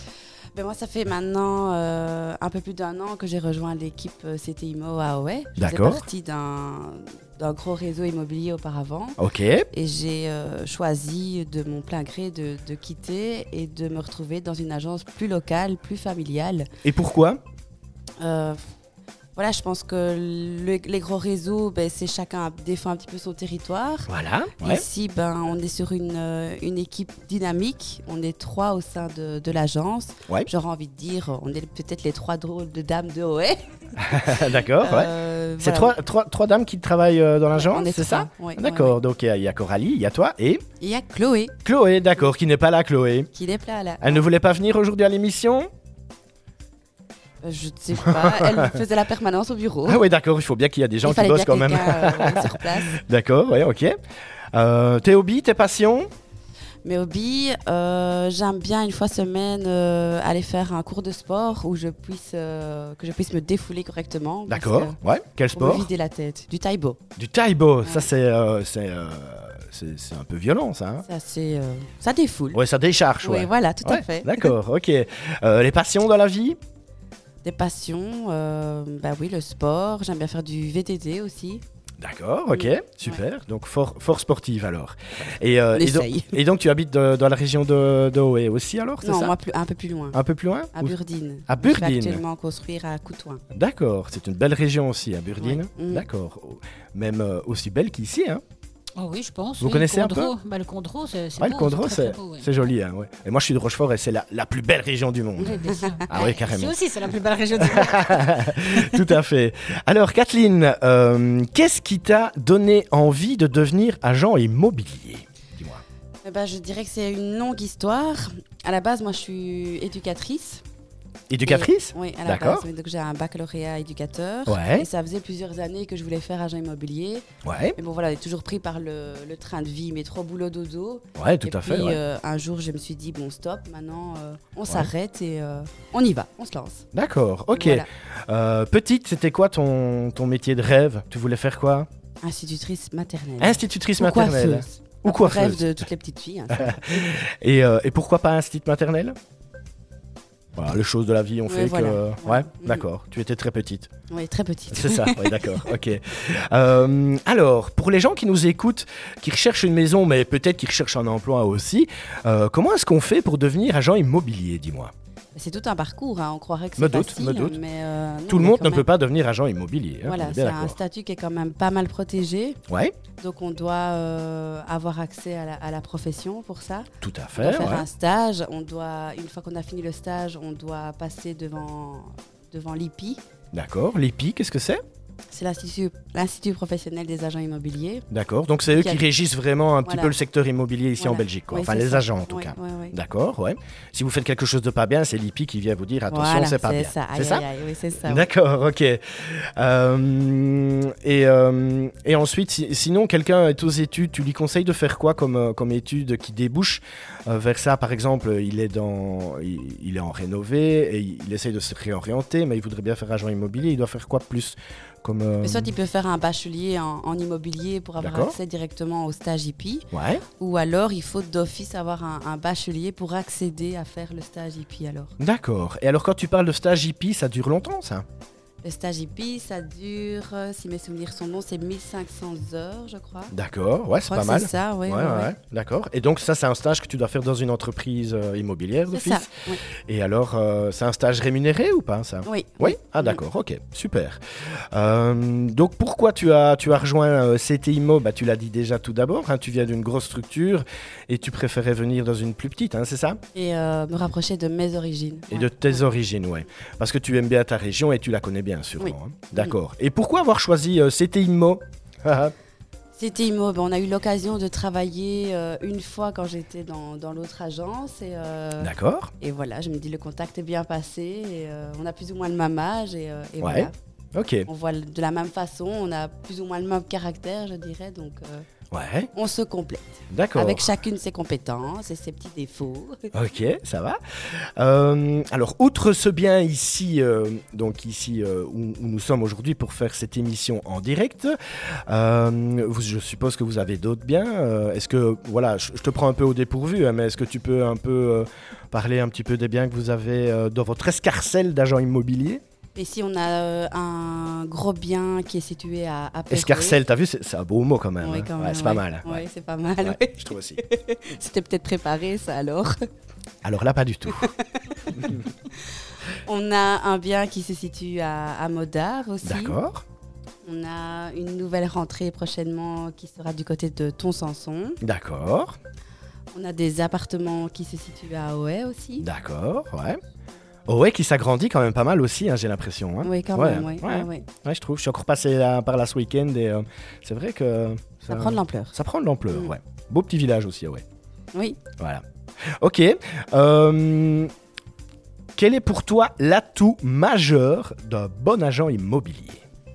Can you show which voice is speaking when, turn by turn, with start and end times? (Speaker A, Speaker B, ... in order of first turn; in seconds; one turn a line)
Speaker A: 0.6-9.2
Speaker B: 5.6-6.0
Speaker B: 9.2-9.7
Speaker A: 9.7-16.7
Speaker B: 16.8-17.4
Speaker A: 18.2-18.6
Speaker A: 19.4-36.0
Speaker B: 24.1-24.8
Speaker B: 34.0-40.6
Speaker A: 37.5-39.0
Speaker A: 40.8-41.5
Speaker B: 41.6-43.3
Speaker A: 43.3-44.3
Speaker B: 44.0-45.7
Speaker A: 47.4-50.0
Speaker B: 48.0-48.8
Speaker B: 49.9-54.0
Speaker A: 51.0-53.0
Speaker B: 54.5-56.1
Speaker A: 56.8-65.0
Speaker B: 64.5-65.9
Speaker A: 65.5-67.0
Speaker B: 67.2-71.0
Speaker A: 67.8-68.1
Speaker A: 71.0-72.6
Speaker B: 72.5-76.6
Speaker A: 73.2-74.6
Speaker A: 77.4-81.6
Speaker B: 82.0-89.3
Speaker A: 82.5-83.2
Speaker A: 85.8-86.4
Speaker A: 89.0-90.2
Speaker B: 90.1-91.0
Speaker A: 90.7-93.4
Speaker B: 91.5-92.2
Speaker B: 93.5-98.4
Speaker A: 95.4-96.1
Speaker C: 99.0-102.5
Speaker B: 99.6-100.3
Speaker B: 101.4-106.8
Speaker A: 105.5-106.3
Speaker C: 105.6-109.0
Speaker B: 107.5-115.8
Speaker A: 116.2-120.6
Speaker B: 121.3-122.7
Speaker A: 121.4-127.2
Speaker B: 124.5-124.9
Speaker B: 127.4-127.8
Speaker A: 127.8-136.9
Speaker B: 131.2-132.0
Speaker B: 136.9-141.9
Speaker A: 137.5-137.9
Speaker A: 142.2-147.1
Speaker B: 143.4-145.8
Speaker B: 146.6-149.2
Speaker B: 150.6-153.9
Speaker A: 151.5-152.8
Speaker A: 154.1-155.7
Speaker B: 154.7-164.9
Speaker A: 165.3-168.9
Speaker B: 166.8-167.6
Speaker B: 168.3-170.8
Speaker A: 170.0-172.6
Speaker B: 172.7-172.9
Speaker A: 173.2-183.2
Speaker B: 177.0-177.9
Speaker B: 183.5-184.8
Speaker A: 185.3-188.1
Speaker B: 188.1-197.4
Speaker A: 188.7-189.0
Speaker A: 189.8-190.1
Speaker A: 191.0-193.0
Speaker A: 196.1-198.3
Speaker B: 198.0-215.7
Speaker A: 215.4-225.1
Speaker B: 218.0-218.4
Speaker B: 219.9-220.2
Speaker B: 225.2-228.1
Speaker A: 228.6-233.3
Speaker B: 233.3-239.3
Speaker A: 234.1-235.3
Speaker A: 238.9-239.6
Speaker B: 239.9-244.2
Speaker A: 242.3-243.2
Speaker B: 244.7-253.2
Speaker A: 253.3-255.8
Speaker B: 255.3-262.3
Speaker A: 258.8-259.5
Speaker A: 263.0-273.7
Speaker B: 268.6-269.1
Speaker B: 273.4-274.5
Speaker A: 274.5-278.5
Speaker B: 278.7-279.1
Speaker A: 279.1-283.1
Speaker B: 280.1-280.7
Speaker B: 283.1-302.4
Speaker A: 302.8-306.8
Speaker B: 306.3-309.2
Speaker A: 308.0-312.9
Speaker B: 309.8-310.6
Speaker B: 313.4-314.3
Speaker A: 314.1-319.6
Speaker B: 319.2-319.9
Speaker A: 320.4-324.8
Speaker B: 324.8-325.6
Speaker A: 326.3-329.1
Speaker B: 329.0-330.0
Speaker B: 330.7-340.8
Speaker A: 333.0-334.3
Speaker A: 338.1-338.7
Speaker A: 341.3-341.6
Speaker B: 342.6-344.3
Speaker B: 345.4-349.4